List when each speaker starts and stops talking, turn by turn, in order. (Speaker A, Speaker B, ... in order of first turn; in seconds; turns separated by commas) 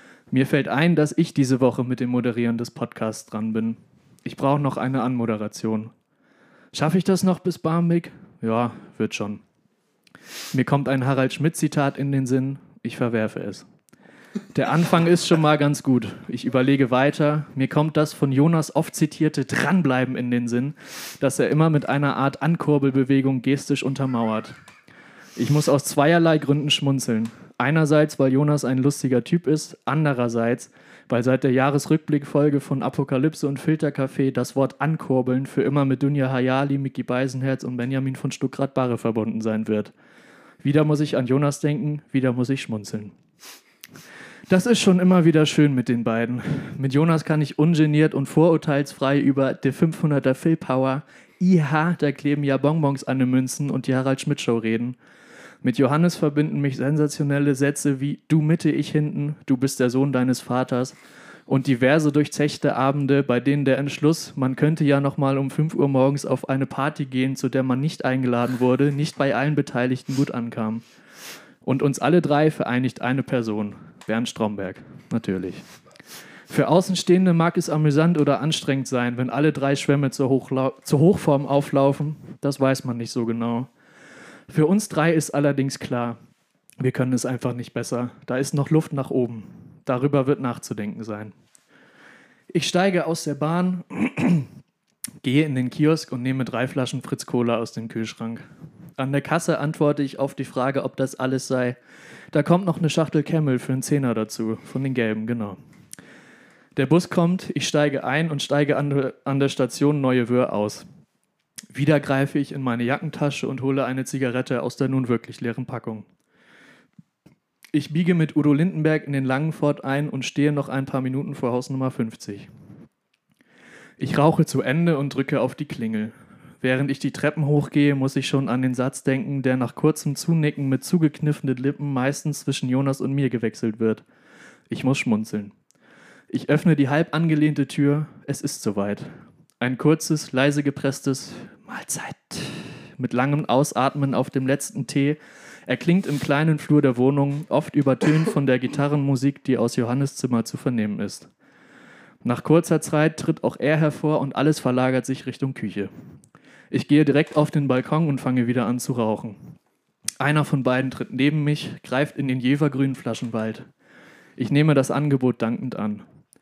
Speaker A: 0.3-5.9, Speaker A: 6.7-9.4, Speaker A: 10.5-13.7, Speaker A: 14.5-24.6, Speaker A: 25.4-39.9, Speaker A: 40.6-43.1, Speaker A: 44.5-55.0, Speaker A: 55.6-61.0, Speaker A: 61.5-70.8, Speaker A: 71.6-75.6, Speaker A: 76.5-83.7, Speaker A: 84.5-86.2, Speaker A: 86.8-91.3, Speaker A: 92.5-94.5, Speaker A: 95.2-98.5, Speaker A: 99.0-101.8, Speaker A: 102.3-105.6, Speaker A: 106.8-110.9, Speaker A: 111.7-116.1, Speaker A: 117.7-122.5, Speaker A: 124.0-134.0, Speaker A: 134.7-135.5, Speaker A: 136.3-151.3, Speaker A: 152.2-155.9, Speaker A: 156.7-159.6, Speaker A: 160.2-163.7, Speaker A: 164.4-166.1